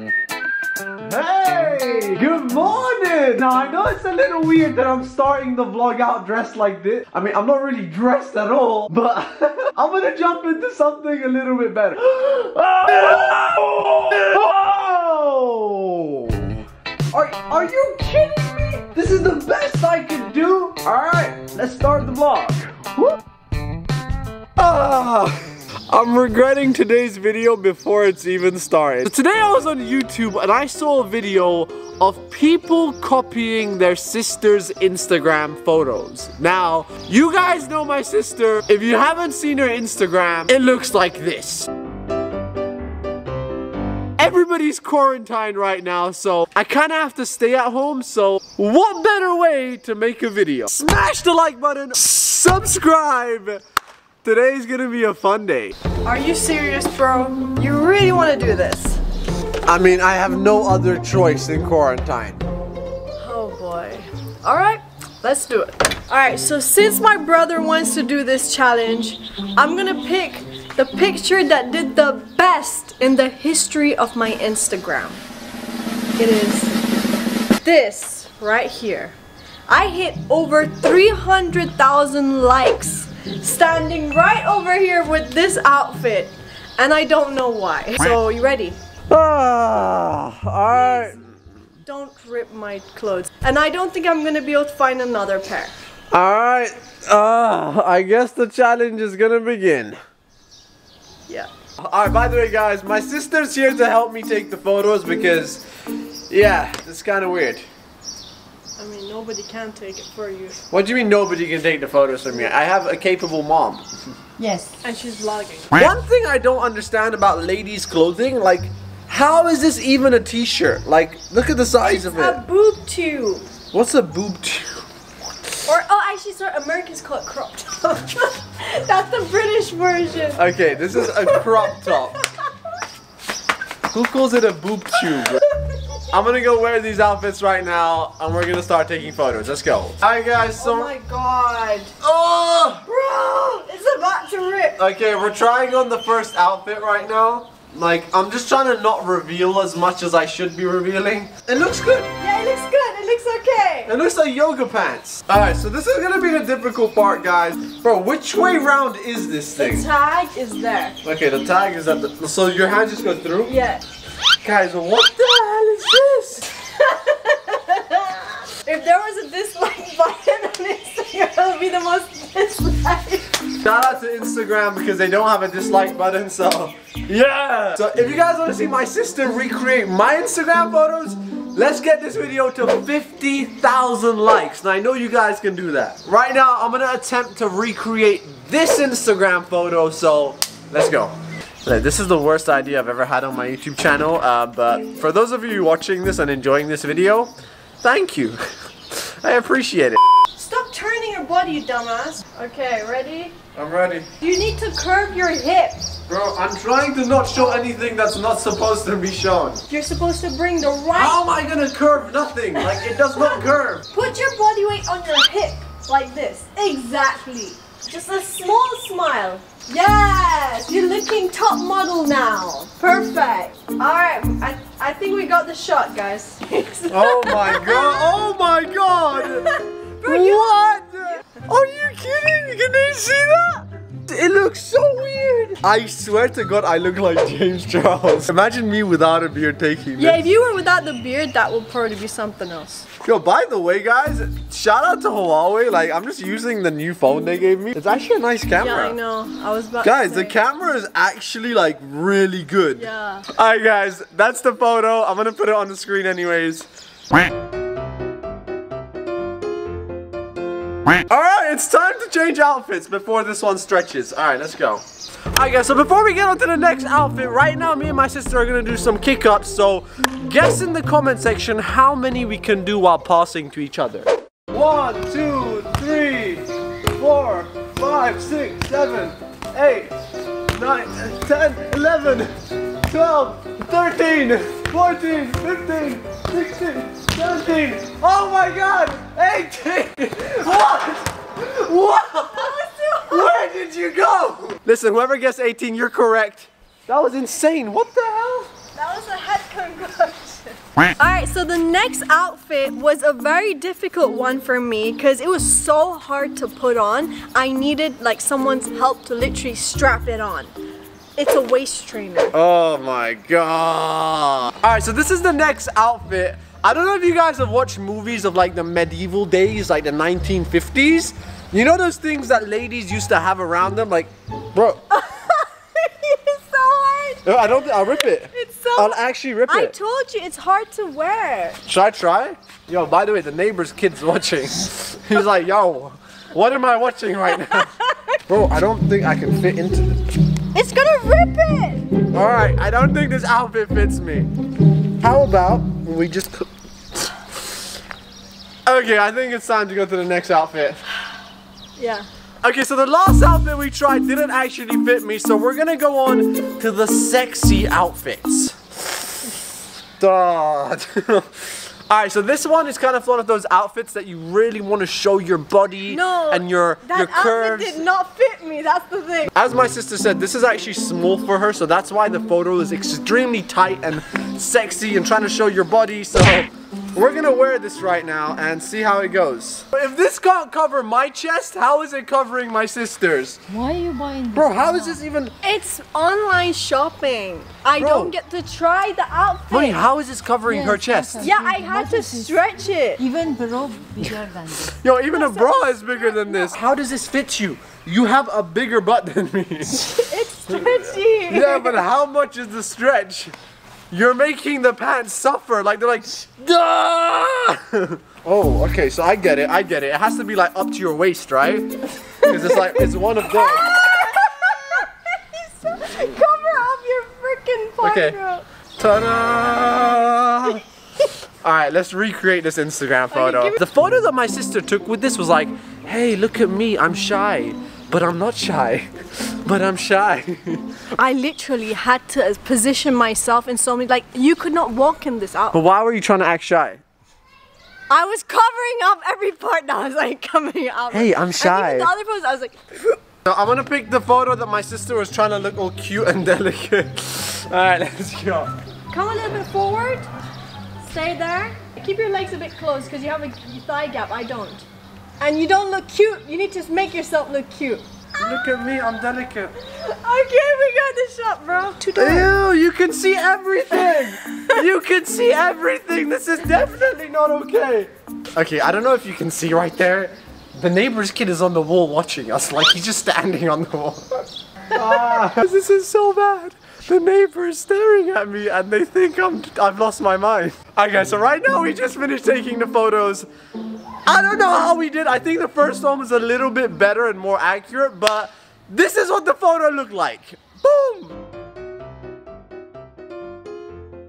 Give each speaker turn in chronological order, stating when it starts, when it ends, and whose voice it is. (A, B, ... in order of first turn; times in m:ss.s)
0:01.0-0:23.2 A
0:24.6-0:41.7 A
0:44.2-0:53.6 A
0:54.2-0:55.7 A
0:56.0-0:59.0 B
0:59.6-1:02.4 A
1:03.2-1:15.2 B
1:16.2-1:16.8 B
1:17.6-1:19.1 B
1:19.7-1:28.8 B
1:29.1-1:31.4 A
1:30.7-1:31.2 B
1:31.8-1:35.7 B
1:36.1-1:40.0 A
1:41.8-1:45.6 A
1:46.3-1:47.6 A
1:48.8-1:50.6 B
1:50.7-1:53.9 A
1:54.4-1:54.8 C
1:54.8-1:55.7 B
1:55.7-2:02.4 A
2:01.8-2:03.4 B
2:03.7-2:04.8 A
2:05.6-2:12.5 B
2:10.3-2:12.2 A
2:13.9-2:15.4 A
2:15.0-2:16.0 B
2:16.1-2:20.9 A
2:20.6-2:21.9 B
2:22.0-2:22.8 A
2:22.8-2:24.8 B
2:24.8-2:32.1 A
2:32.2-2:33.9 B
2:33.8-2:39.9 A
2:39.6-2:41.0 B
2:41.0-2:43.5 A
2:43.5-2:43.8 B
2:44.4-2:46.5 A
2:46.5-2:53.4 B
2:53.5-3:20.0 A
3:20.3-3:23.3 B
3:23.5-3:24.1 A
3:24.2-3:25.9 B
3:26.1-3:29.6 A
3:29.7-3:31.2 B
3:30.9-3:33.8 A
3:32.6-3:48.1 B
3:46.9-3:49.5 A
3:49.2-3:50.5 B
3:50.0-4:00.2 A
4:00.0-4:02.9 B
4:03.0-4:08.9 A
4:08.6-4:10.4 B
4:09.8-4:16.7 A
4:12.7-4:13.2 B
4:21.1-4:24.8 A
4:25.3-4:40.0 A
4:40.5-4:52.6 A
4:52.2-4:53.3 B
4:53.1-4:58.5 A
4:58.7-5:10.5 B
5:11.2-5:12.3 B
5:12.3-5:24.8 A
5:24.9-5:31.6 B
5:27.2-5:29.7 A
5:31.6-5:37.7 A
5:37.4-5:38.2 B
5:38.3-5:40.1 A
5:40.5-5:42.0 B
5:42.1-5:44.3 A
5:45.0-5:47.1 A
5:48.6-5:50.8 A
5:51.8-5:52.1 B
5:52.4-5:59.0 A
6:00.0-6:07.8 A
6:05.9-6:09.3 B
6:09.3-6:23.4 A
6:23.5-6:25.0 C
6:24.3-6:25.3 A
6:25.4-6:29.8 B
6:27.8-6:28.1 A
6:29.5-6:31.3 A
6:30.4-6:32.4 C
6:31.2-6:33.0 B
6:33.0-6:34.8 C
6:34.7-6:39.9 A
6:35.1-6:36.5 B
6:39.7-6:41.8 B
6:40.5-6:43.3 A
6:43.9-6:54.2 A
6:52.2-6:58.4 B
6:57.8-6:58.2 A
6:58.8-7:00.6 A
7:01.4-7:10.7 A
7:03.1-7:03.6 B
7:10.9-7:15.6 B
7:15.5-7:16.8 A
7:17.9-7:23.0 B
7:20.9-7:21.9 A
7:23.2-7:28.5 A
7:28.9-7:30.1 B
7:30.8-7:34.6 B
7:35.2-7:38.4 B
7:38.2-7:39.5 A
7:39.6-7:42.3 B
7:42.0-8:03.3 A
7:44.3-7:44.6 B
8:04.1-8:11.2 A